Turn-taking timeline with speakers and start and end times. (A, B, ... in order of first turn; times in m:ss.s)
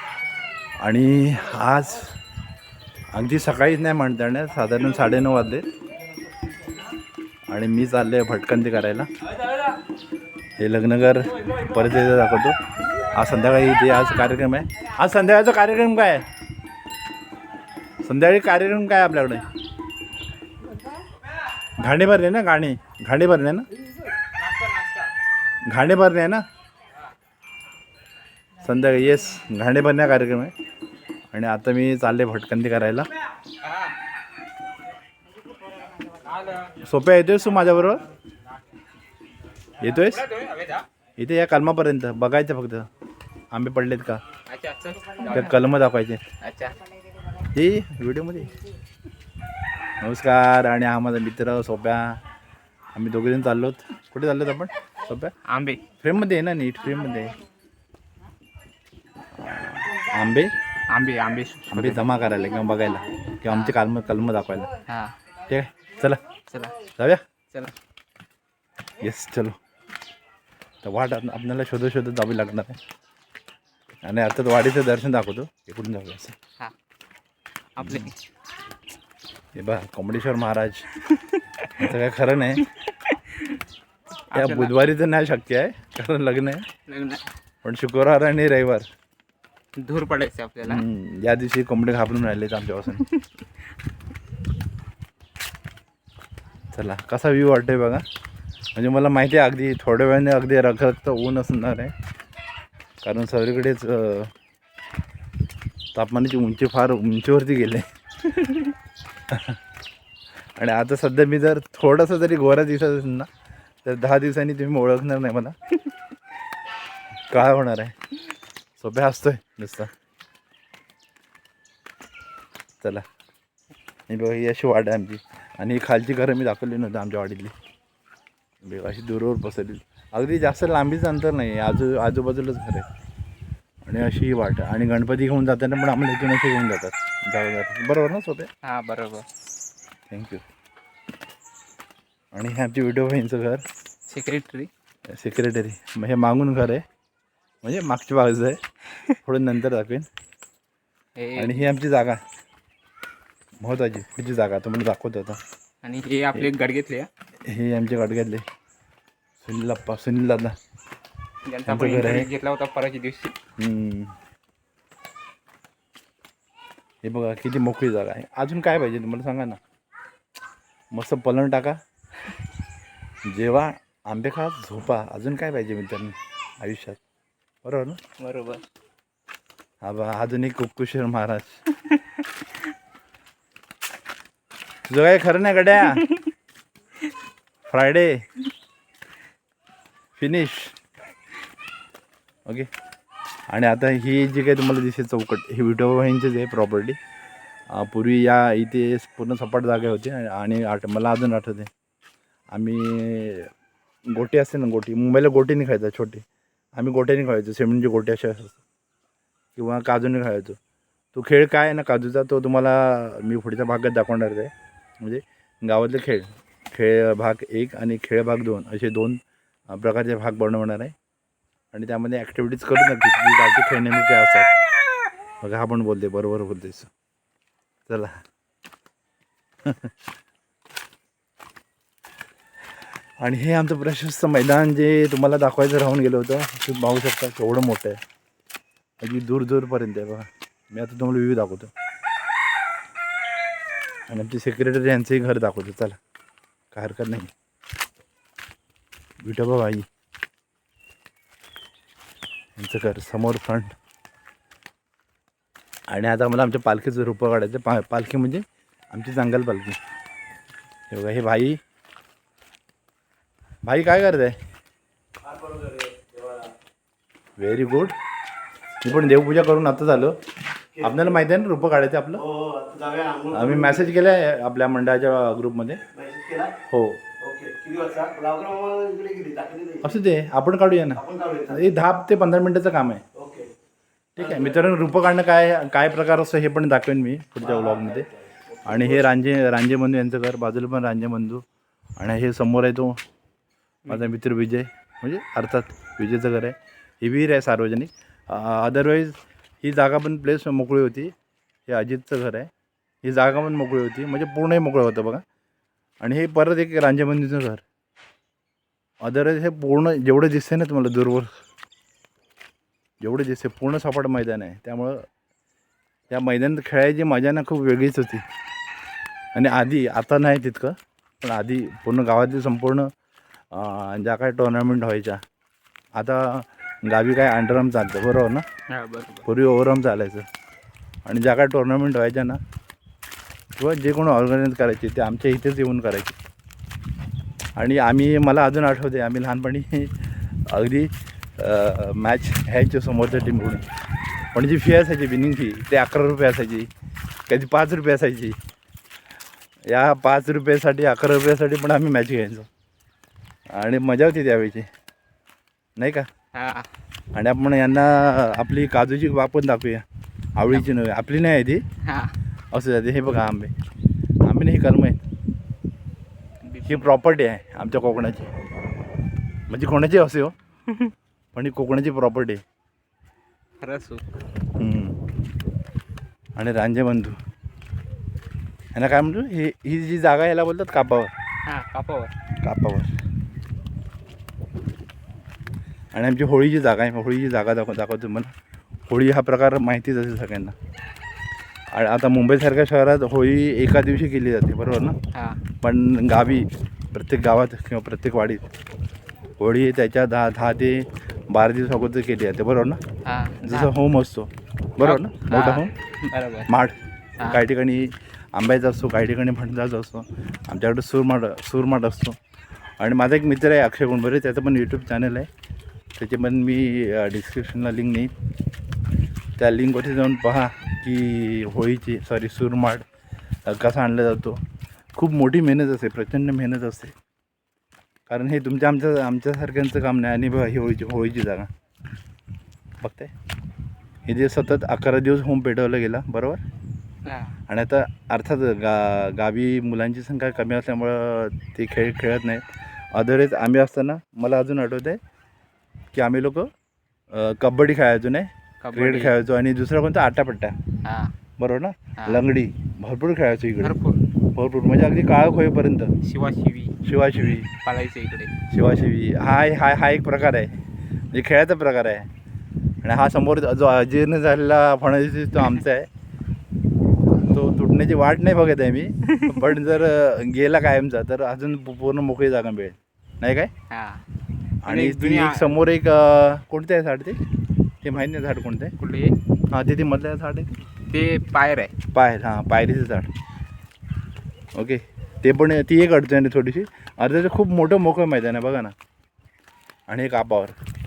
0:00.8-0:02.2 A
0:03.1-0:05.6 A
0:07.5-0:09.1 A
0:10.6-0:12.6 A
0:13.1-0:16.2 A
0:18.0-0:19.4 A
0:21.8-0:23.7 A
0:25.7-0:26.4 A
0:28.6-0:30.5 A
0:31.3-0:33.1 A
0:33.6-0:33.9 B
0:36.1-0:36.7 B
0:36.8-0:38.0 A
0:39.8-0:40.2 A
0:39.8-0:40.9 B
0:41.2-0:42.9 A
0:43.5-0:44.2 A
0:44.5-0:45.6 B
0:45.3-0:46.2 A
0:46.4-0:46.8 B
0:47.5-0:48.5 A
0:50.0-0:52.2 A
0:52.9-0:55.3 A
0:55.4-0:55.8 B
0:56.0-0:57.4 A
0:59.4-1:00.5 A
1:00.9-1:02.1 B
1:01.7-1:04.7 A
1:03.4-1:03.8 B
1:04.9-1:05.1 B
1:05.5-1:06.2 A
1:06.5-1:06.8 B
1:07.0-1:07.2 A
1:09.0-1:09.6 A
1:10.8-1:12.8 A
1:14.0-1:16.4 A
1:17.7-1:18.1 B
1:17.8-1:18.1 A
1:19.5-1:21.0 A
1:21.2-1:21.6 B
1:21.6-1:22.7 A
1:23.0-1:23.6 B
1:24.3-1:24.7 B
1:24.3-1:26.7 A
1:26.9-1:27.2 B
1:27.6-1:28.8 A
1:29.8-1:30.8 B
1:30.6-1:33.1 A
1:36.7-1:38.0 A
1:38.7-1:41.9 A
1:43.0-1:44.3 A
1:45.9-1:47.8 A
1:49.3-1:49.6 A
1:50.6-1:53.3 A
1:53.8-1:55.6 A
1:57.3-1:58.0 A
1:58.8-1:59.9 A
2:04.1-2:07.5 A
2:08.6-2:12.8 A
2:13.8-2:18.5 A
2:18.6-2:19.2 B
2:20.1-2:20.4 A
2:22.3-2:23.6 A
2:24.1-2:24.7 B
2:25.1-2:26.8 A
2:27.6-2:28.6 A
2:29.1-2:30.1 A
2:31.2-2:31.7 B
2:31.4-2:32.2 A
2:33.6-2:35.4 A
2:35.8-2:37.1 B
2:37.4-2:38.4 A
2:39.4-2:40.5 A
2:41.4-2:43.3 B
2:41.7-2:42.3 A
2:43.6-2:44.1 A
2:47.0-2:49.6 A
2:50.9-2:51.8 A
2:53.2-2:57.0 A
2:57.6-2:58.0 A
2:58.2-2:58.6 B
2:59.8-3:01.6 A
3:04.9-3:06.1 A
3:07.7-3:08.2 A
3:10.2-3:10.8 A
3:13.5-3:17.0 A
3:17.7-3:21.7 A
3:22.5-3:23.5 A
3:24.1-3:26.2 A
3:26.8-3:28.6 A
3:29.6-3:30.6 A
3:31.1-3:39.2 A
3:39.7-3:40.9 A
3:41.7-3:44.5 A
3:45.4-3:46.9 A
3:47.9-3:48.2 A
3:49.6-3:49.9 A
3:53.2-3:58.0 A
3:59.0-4:01.7 A
4:04.1-4:06.0 A
4:06.7-4:07.3 A
4:09.2-4:09.8 A
4:12.6-4:13.7 A
4:15.9-4:19.8 A
4:20.9-4:21.6 A
4:23.6-4:24.4 A
4:25.3-4:26.4 C
4:27.4-4:27.9 A
4:28.8-4:30.2 A
4:30.8-4:32.2 A
4:32.4-4:33.3 C
4:33.3-4:35.8 A
4:36.1-4:36.4 C
4:36.6-4:37.2 A
4:37.2-4:39.8 C
4:39.8-4:43.0 A
4:44.1-4:48.1 A
4:48.6-4:51.4 A
4:52.0-4:53.0 A
4:53.9-5:01.1 A
5:01.7-5:02.5 A
5:03.0-5:05.2 A
5:06.0-5:07.6 A
5:09.0-5:11.3 A
5:13.0-5:15.0 A
5:16.1-5:18.2 A
5:19.3-5:22.9 A
5:23.5-5:25.2 A
5:26.0-5:28.4 A
5:28.7-5:29.2 B
5:29.2-5:30.2 A
5:31.0-5:32.4 A
5:33.6-5:36.1 A
5:37.6-5:43.6 A
5:44.3-5:46.7 A
5:47.3-5:48.4 A
5:49.7-5:52.5 A
5:53.5-5:54.7 A
5:55.8-5:56.1 A
5:56.3-5:56.7 B
5:57.1-5:59.8 A
6:00.4-6:01.6 A
6:01.8-6:02.2 B
6:02.5-6:03.5 A
6:04.2-6:05.0 A
6:06.4-6:06.8 B
6:06.6-6:08.3 A
6:09.5-6:10.4 A
6:11.3-6:12.4 A
6:13.6-6:14.0 B
6:14.6-6:15.0 A
6:16.4-6:17.2 A
6:18.7-6:21.1 A
6:21.5-6:22.1 B
6:22.4-6:22.9 A
6:25.9-6:28.3 A
6:28.9-6:30.5 A
6:31.7-6:35.0 A
6:35.1-6:35.4 B
6:35.6-6:38.4 A
6:39.4-6:42.8 A
6:43.0-6:43.7 B
6:43.4-6:45.7 A
6:44.8-6:46.5 B
6:46.5-6:52.2 A
6:52.8-6:55.3 A
6:56.0-6:58.1 A
6:59.4-7:02.8 A
7:03.4-7:04.4 A
7:04.9-7:06.9 A
7:08.1-7:11.5 A
7:12.8-7:13.1 A
7:14.1-7:16.4 A
7:17.0-7:17.4 B
7:17.5-7:25.0 A
7:25.9-7:26.5 A
7:27.1-7:30.6 A
7:28.6-7:29.1 B
7:30.8-7:31.1 B
7:31.4-7:33.7 A
7:33.6-7:34.1 B
7:34.3-7:35.9 A
7:36.0-7:36.8 B
7:36.8-7:37.5 A
7:37.6-7:38.3 B
7:38.5-7:40.6 A
7:41.1-7:42.1 A
7:42.8-7:45.9 A
7:47.2-7:53.5 A
7:53.7-7:54.0 B
7:54.6-7:57.2 A
7:54.6-7:55.6 B
7:57.8-7:58.7 A
7:58.8-7:59.2 B
7:59.5-8:00.6 A
8:00.9-8:01.7 B
8:01.9-8:03.1 A
8:04.5-8:08.7 A
8:09.9-8:10.5 A